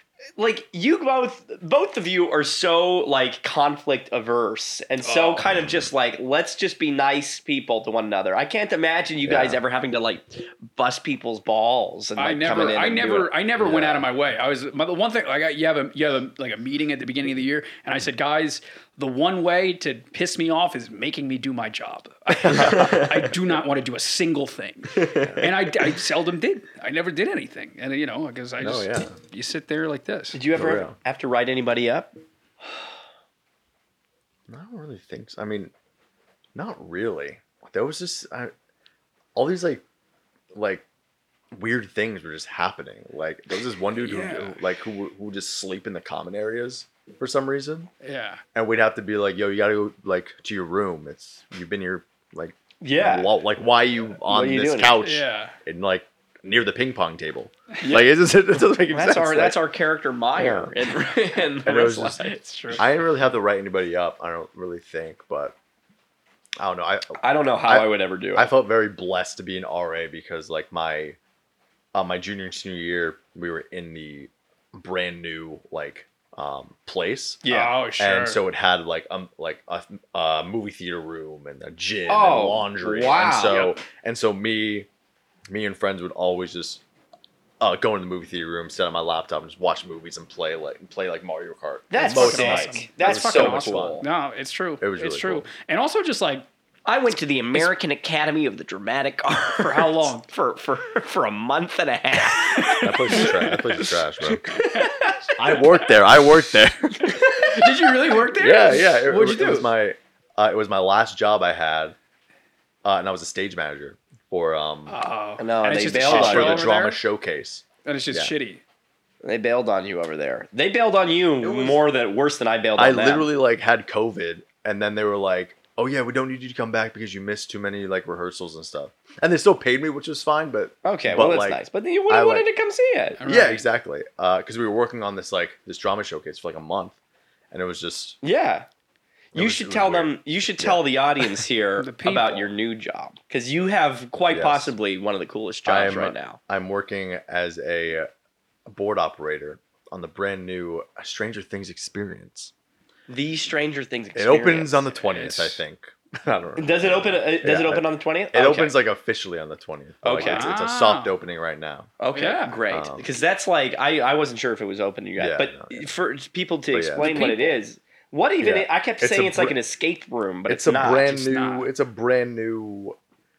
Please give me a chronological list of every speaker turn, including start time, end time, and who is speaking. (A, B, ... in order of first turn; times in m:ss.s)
0:00.4-0:13.3 A
0:05.0-0:05.5 B
0:09.2-0:09.6 C
0:12.2-0:30.4 B
0:13.6-0:14.1 C
0:22.4-0:23.2 A
0:24.9-0:25.5 A
0:28.6-0:29.1 C
0:30.3-0:32.1 A
0:30.5-0:30.9 C
0:34.5-0:35.7 C
0:36.5-0:38.5 C
0:39.3-0:39.8 C
0:40.5-0:40.8 C
0:41.5-0:47.9 C
0:43.9-0:44.6 B
0:48.0-0:48.4 B
0:48.5-0:59.6 C
0:52.8-0:53.3 A
0:54.3-0:55.0 A
0:55.0-0:55.6 B
0:58.9-1:02.8 A
1:00.4-1:00.7 C
1:01.6-1:02.2 C
1:02.4-1:02.8 B
1:02.7-1:05.5 C
1:06.6-1:11.2 C
1:07.2-1:08.5 A
1:11.9-1:17.4 C
1:17.4-1:17.8 A
1:17.5-1:18.4 B
1:18.0-1:24.9 C
1:22.1-1:23.7 A
1:25.5-1:26.8 C
1:27.6-1:34.0 C
1:31.9-1:34.0 A
1:32.0-1:36.4 B
1:34.8-1:35.4 C
1:36.8-1:43.5 A
1:39.6-1:40.3 B
1:42.3-1:43.9 B
1:42.8-1:44.6 C
1:44.5-1:45.4 B
1:44.6-1:45.1 A
1:45.4-1:47.2 C
1:47.1-1:49.7 B
1:47.2-1:48.4 A
1:48.4-1:52.0 C
1:52.8-1:55.0 C
1:54.9-1:57.0 B
1:55.4-1:56.7 A
1:56.0-1:58.3 C
1:57.8-1:58.6 B
1:59.2-2:03.3 A
2:01.4-2:01.8 C
2:02.8-2:12.5 C
2:10.8-2:13.2 A
2:13.2-2:13.6 B
2:13.2-2:17.0 C
2:17.5-2:18.2 C
2:18.2-2:18.6 A
2:19.3-2:26.4 A
2:19.3-2:20.8 C
2:21.8-2:22.5 B
2:24.3-2:24.7 C
2:25.6-2:28.1 C
2:28.7-2:32.5 C
2:33.1-2:34.9 A
2:34.2-2:41.9 C
2:35.0-2:35.6 B
2:36.6-2:38.8 A
2:40.0-2:40.5 A
2:40.1-2:41.1 B
2:42.0-2:51.2 A
2:42.1-2:42.6 B
2:42.7-2:43.1 C
2:45.2-2:45.9 C
2:46.7-2:47.2 C
2:47.0-2:47.6 B
2:48.4-2:49.6 C
2:50.5-2:53.0 C
2:51.0-2:51.7 B